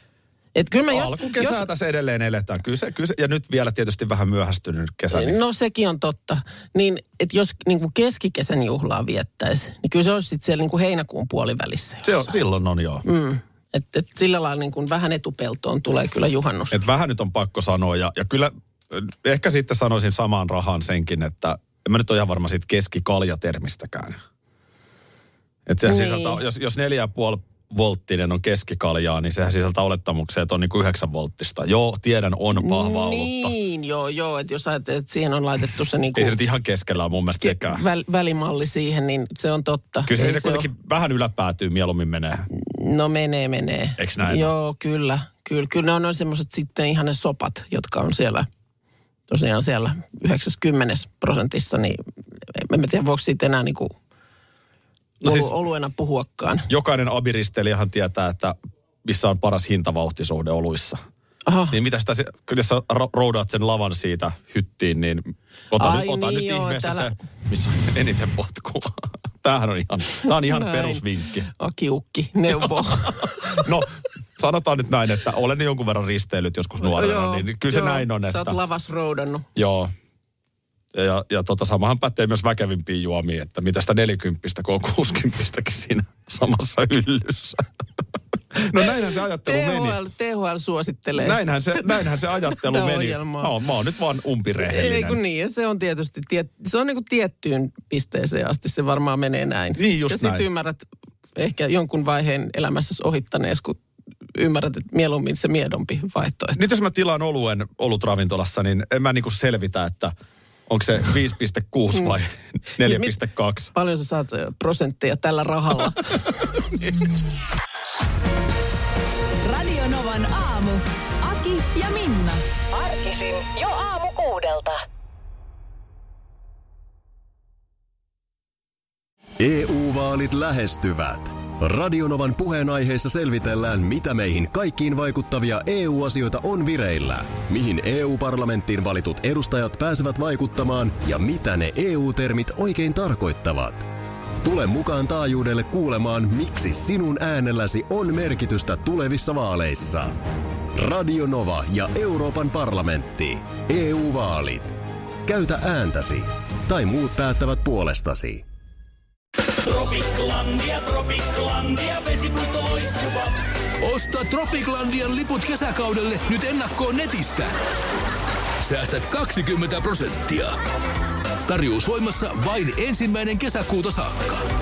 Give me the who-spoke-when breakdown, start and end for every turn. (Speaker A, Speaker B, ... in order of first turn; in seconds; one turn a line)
Speaker A: 0.6-1.6
Speaker B: 0.9-5.4
Speaker A: 5.1-12.3
Speaker B: 12.0-13.1
Speaker A: 13.1-16.8
Speaker B: 16.7-24.2
Speaker B: 25.7-33.5
Speaker A: 25.9-26.4
Speaker A: 32.6-36.4
Speaker B: 36.1-37.8
Speaker A: 37.4-40.7
Speaker B: 40.1-42.5
Speaker A: 42.5-48.5
Speaker B: 44.0-44.5
Speaker A: 49.3-52.0
Speaker A: 52.5-53.9
Speaker B: 55.2-55.5
Speaker A: 55.2-56.7
Speaker B: 56.7-61.0
Speaker A: 61.5-61.8
Speaker B: 61.7-71.5
Speaker A: 65.8-67.1
Speaker A: 70.3-73.8
Speaker B: 72.5-78.6
Speaker A: 76.8-79.5
Speaker B: 79.6-79.9
Speaker B: 80.9-87.7
Speaker B: 88.5-90.0
Speaker A: 88.7-93.5
Speaker B: 91.2-95.2
Speaker A: 94.6-100.8
Speaker B: 99.8-100.5
Speaker A: 101.4-103.8
Speaker A: 104.3-106.6
Speaker B: 106.6-110.1
Speaker B: 110.7-113.7
Speaker A: 112.8-113.2
Speaker A: 113.7-116.2
Speaker C: 119.4-122.4
Speaker D: 122.7-124.8
Speaker E: 129.4-143.9
Speaker E: 144.4-150.2
Speaker E: 150.7-158.4
Speaker F: 159.5-167.5
Speaker F: 168.6-170.6
Speaker F: 171.5-174.4